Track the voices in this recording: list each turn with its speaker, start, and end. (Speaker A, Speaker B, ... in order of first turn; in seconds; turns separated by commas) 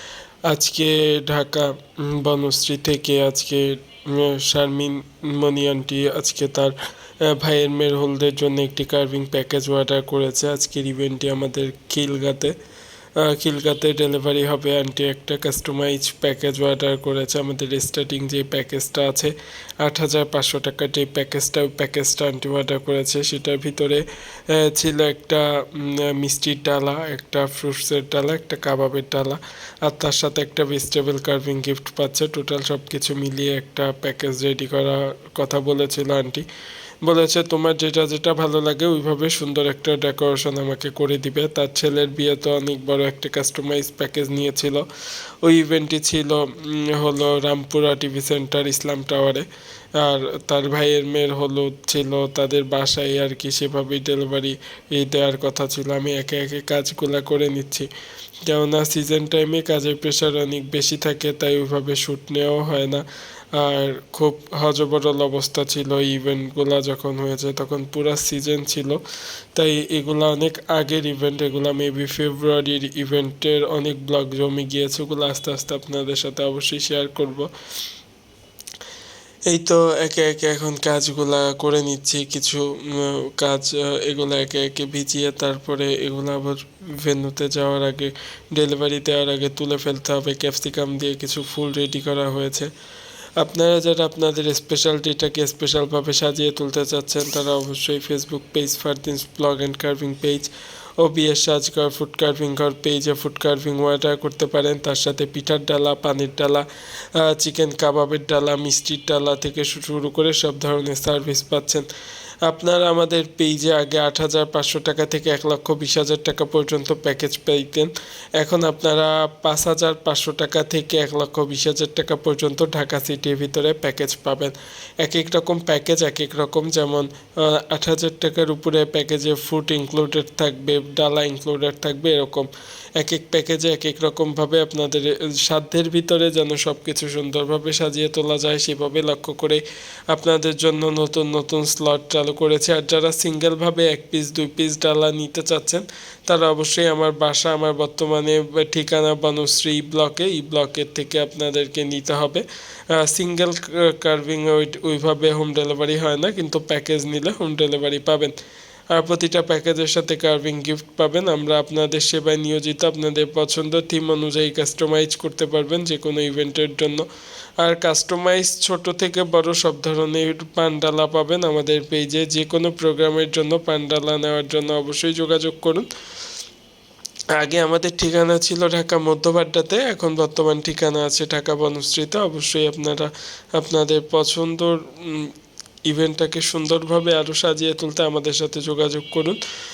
Speaker A: 0.5-12.6, Speaker A: 13.2-36.5, Speaker A: 37.0-44.9, Speaker A: 45.4-49.5, Speaker A: 50.0-57.9, Speaker A: 58.5-69.0, Speaker A: 69.5-77.5, Speaker A: 79.5-92.7, Speaker A: 93.4-111.9, Speaker A: 112.4-158.3, Speaker A: 158.9-167.1, Speaker A: 167.6-175.9, Speaker A: 177.4-185.3, Speaker A: 185.9-189.4